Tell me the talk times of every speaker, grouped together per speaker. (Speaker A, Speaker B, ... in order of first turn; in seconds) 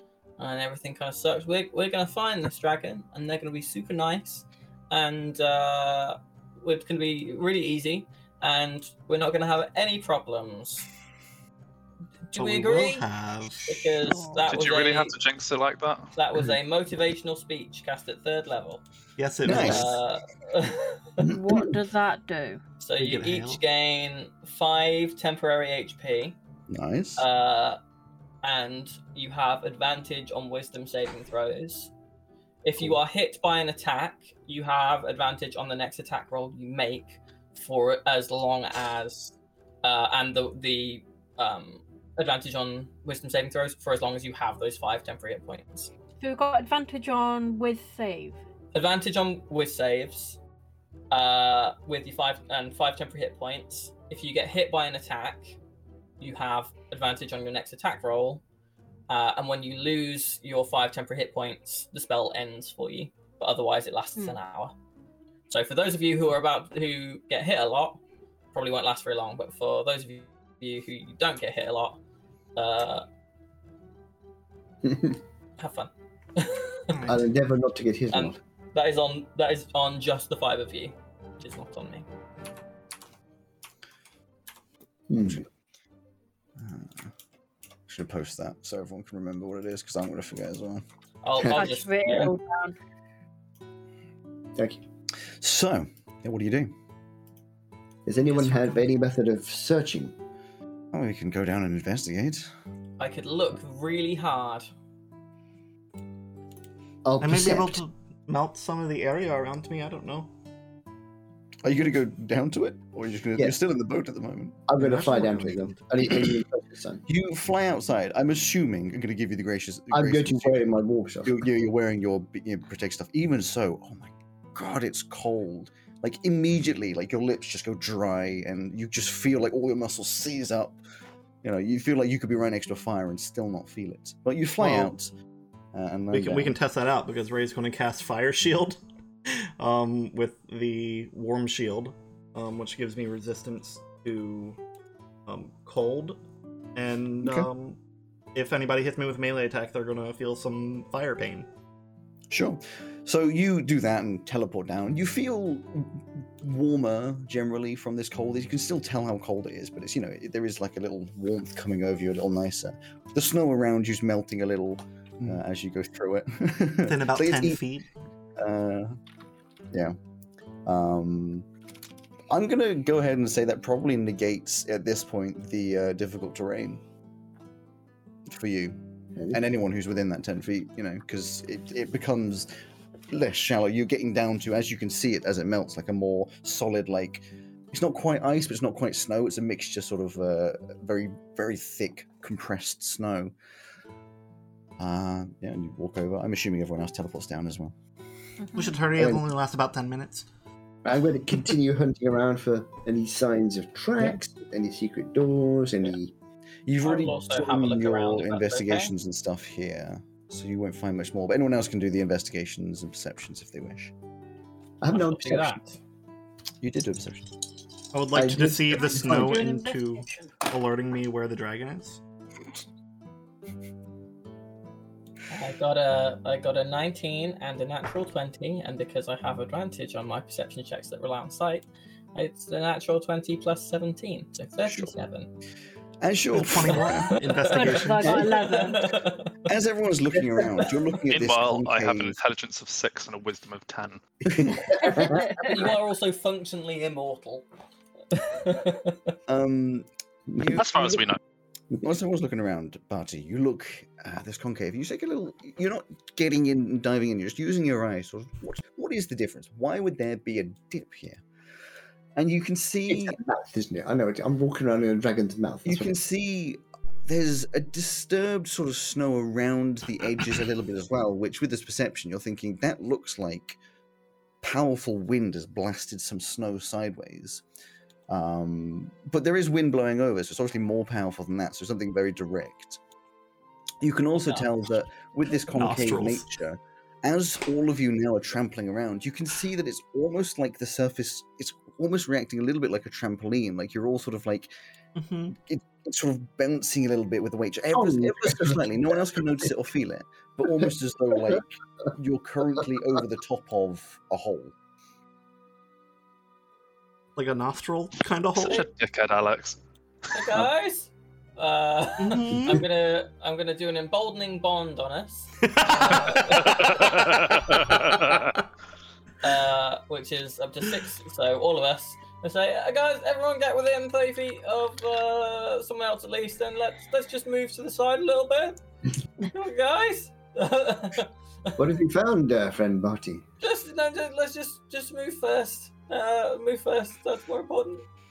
Speaker A: 0.4-10.9, 12.3-13.1, 13.7-15.2, 16.1-18.8, 19.5-21.3, 22.8-26.4, 27.2-27.8, 28.4-31.9, 32.6-45.9, 48.7-50.4, 51.1-55.6, 56.2-58.4, 59.1-64.7, 65.5-68.0, 68.5-72.0, 72.5-73.0, 75.6-77.0, 78.1-82.0, 91.2-92.3, 103.0-104.7, 206.8-208.9, 214.9-215.8, 225.3-235.3, 237.1-239.3, 244.9-247.4, 248.1-249.1, 284.2-284.5, 310.1-317.0, 319.2-328.6, 329.2-331.6, 333.4-337.8
Speaker B: 12.3-14.0, 19.2-20.0, 23.0-23.6, 76.9-77.3, 98.3-98.8, 107.2-110.3, 114.8-115.8, 134.6-134.9, 136.1-144.6, 145.2-146.2, 146.7-147.8, 148.3-151.5, 166.8-167.8, 198.5-200.3, 217.9-222.0, 236.3-238.3, 285.5-286.3, 294.9-295.4, 307.1-308.6, 312.0-312.6, 315.4-317.6
Speaker C: 14.0-14.4, 21.2-22.6, 46.2-48.4, 91.5-92.7, 198.4-198.8, 218.7-220.3, 237.5-239.0, 244.8-245.6
Speaker D: 14.4-16.1, 241.1-244.0, 250.5-251.2, 308.3-309.6, 316.5-318.3
Speaker E: 19.4-19.9, 26.7-27.2, 86.6-87.1, 87.9-90.8, 95.4-96.8, 100.9-102.5, 111.6-114.7, 117.1-120.7, 121.2-130.8, 131.4-135.1, 135.7-136.5, 152.3-167.6, 168.4-169.0, 170.6-171.4, 172.3-176.8, 178.3-178.8, 179.3-182.5, 183.1-193.3, 194.8-197.7, 206.7-213.9, 216.6-217.3, 234.6-234.9, 236.0-237.1, 239.4-242.2, 249.3-251.0, 251.8-261.2, 262.1-263.2, 265.6-273.6, 274.4-277.4, 278.1-282.8, 283.8-294.5, 295.4-304.5
Speaker F: 21.2-21.8, 74.8-75.2, 77.0-78.4, 85.1-85.4, 91.3-91.7, 94.5-94.8, 98.0-100.2, 107.0-107.8, 114.7-117.0, 119.9-121.4, 179.2-179.4, 199.0-199.2, 200.8-206.1, 214.8-215.6, 218.1-219.4, 244.4-245.4, 262.9-265.9, 297.7-298.6, 331.6-333.2